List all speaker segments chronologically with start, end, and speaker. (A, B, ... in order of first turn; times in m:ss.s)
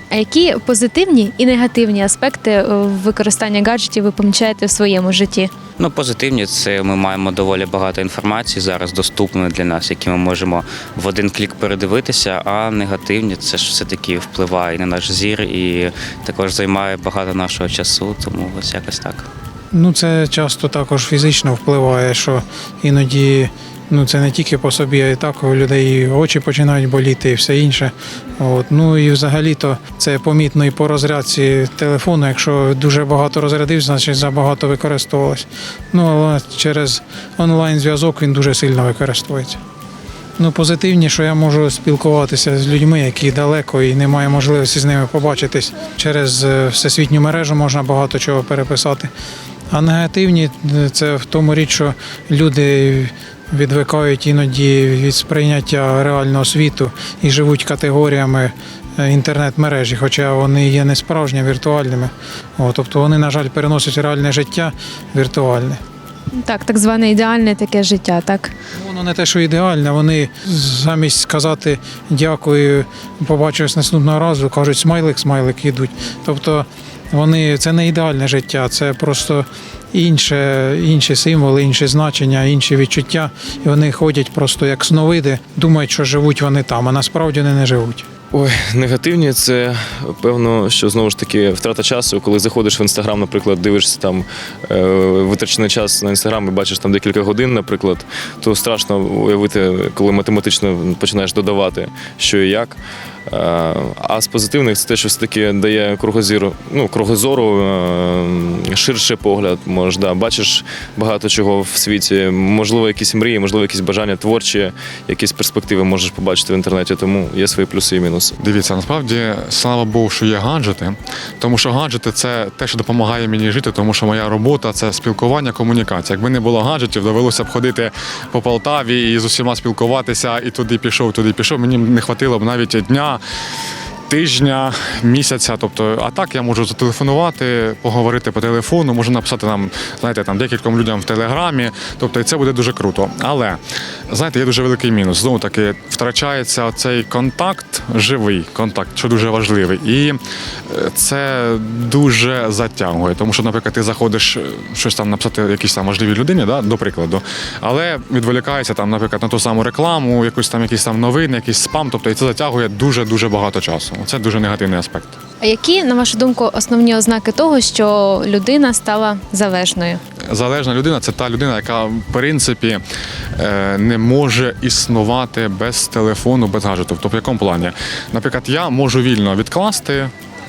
0:00.1-0:05.5 A
0:05.8-0:19.3 B
0:19.7-0:39.6 C
0:40.4-0:49.1 C
0:49.7-1:05.8 C
1:06.4-1:08.5 A
1:08.8-1:28.1 C
1:28.3-1:58.4 D
1:58.4-2:13.2 E
2:14.1-2:45.2 E
2:45.4-2:50.0 A
2:50.3-2:52.8 E
2:53.4-3:00.1 E